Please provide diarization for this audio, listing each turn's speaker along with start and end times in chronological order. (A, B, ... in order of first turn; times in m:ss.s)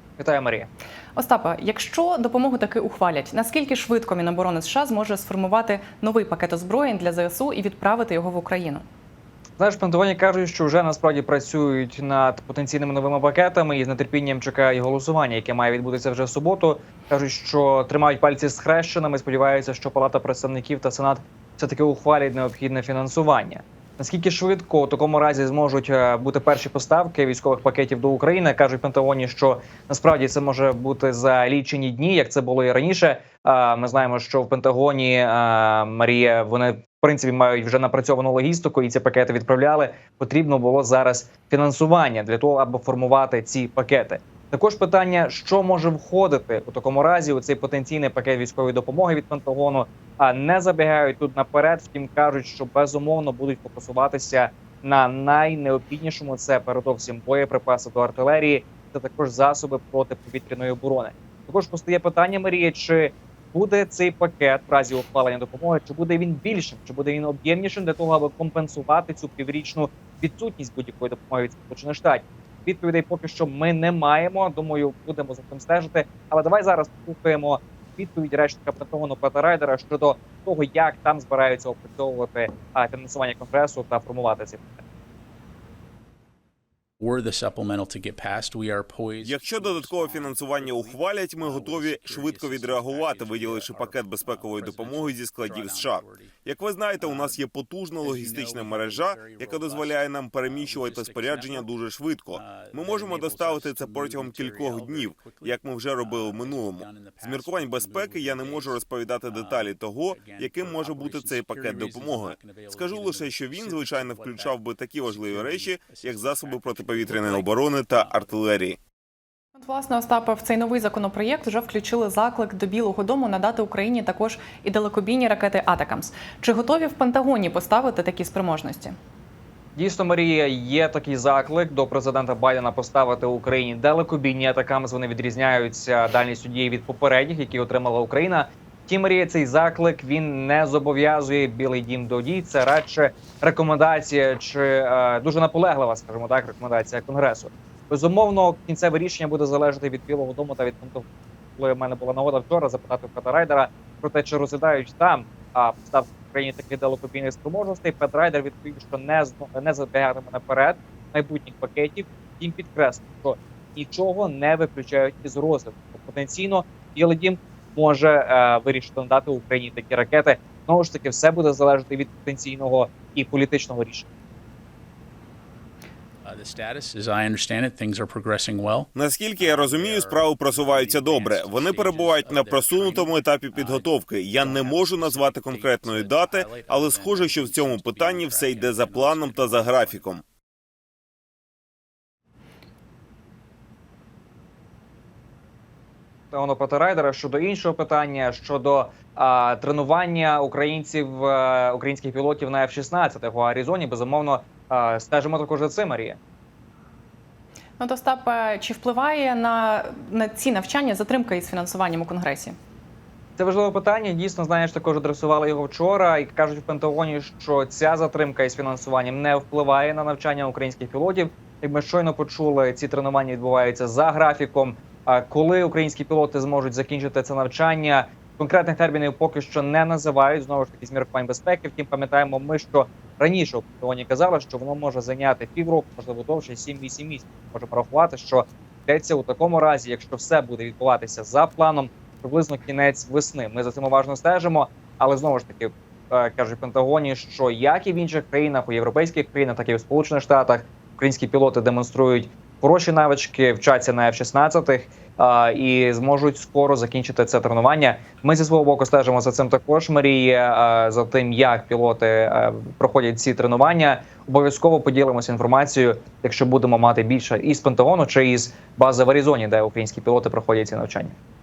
0:00.2-0:00.7 A
0:01.2-0:08.8 B
0:09.6-1:24.8 A
1:27.0-1:36.4 C
1:29.2-1:58.8 D
1:37.0-1:37.4 C
1:38.0-1:41.7 C
1:42.3-1:58.5 C
1:59.6-2:09.0 B
2:09.8-2:54.1 A
2:56.2-3:10.0 C
2:59.0-3:10.2 D
3:16.3-3:26.2 A
3:27.8-3:32.6 B
3:33.4-4:31.2 A